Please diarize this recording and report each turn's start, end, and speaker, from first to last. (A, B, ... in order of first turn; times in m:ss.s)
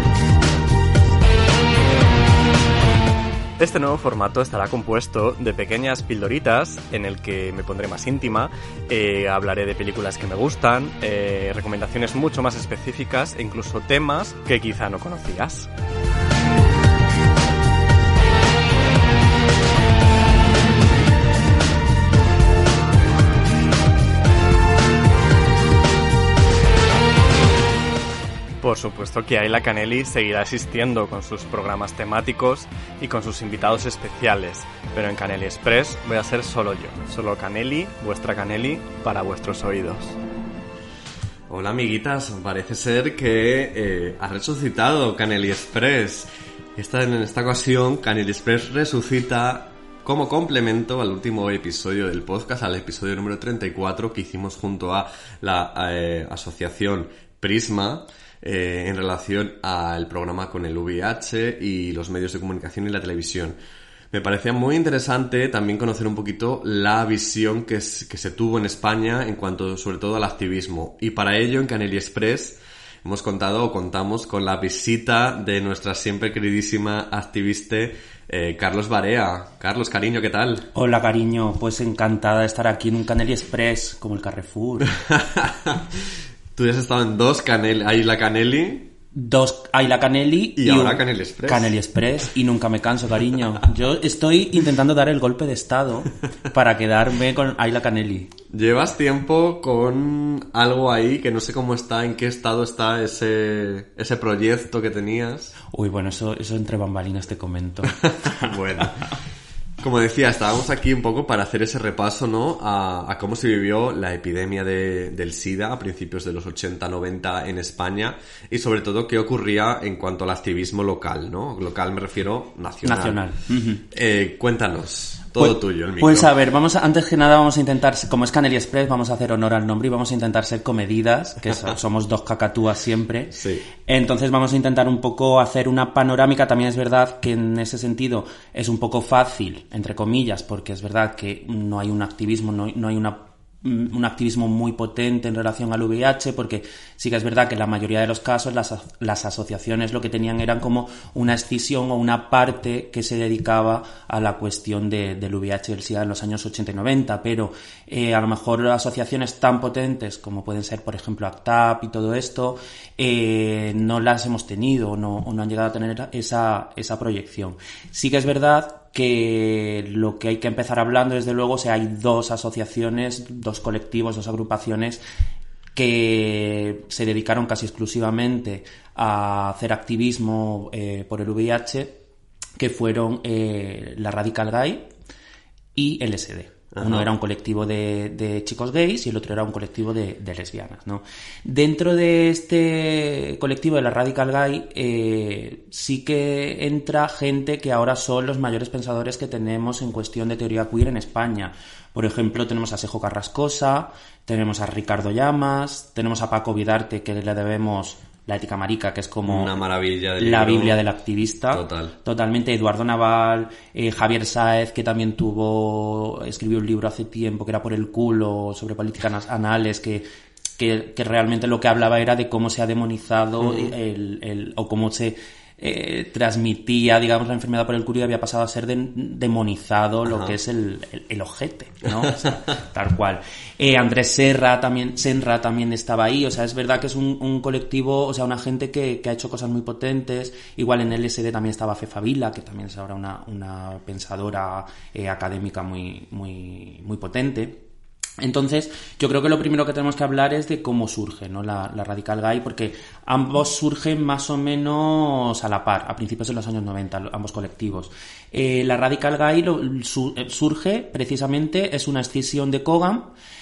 0:03.6-0:15.7 A
0:28.6-0:40.1 A
0:41.5-1:03.6 B
1:04.1-1:20.7 B
1:20.7-1:25.0 C
1:24.9-1:28.9 B
1:29.1-1:38.3 C
1:30.6-1:31.7 B
1:38.5-1:45.6 B
1:45.7-1:48.5 C
1:47.9-1:49.1 B
1:49.8-2:03.2 B
2:02.8-2:03.8 C
2:03.9-2:06.3 B
2:05.4-2:55.0 C
2:13.3-2:13.7 B
2:55.8-3:02.0 C
3:02.6-3:04.9 C
3:05.8-3:29.6 C
3:06.7-3:07.1 B
3:29.3-3:30.8 B
3:30.2-3:40.0 C
3:31.5-3:31.9 B
3:40.6-4:07.6 C
3:50.1-3:50.4 B
4:08.2-4:23.1 C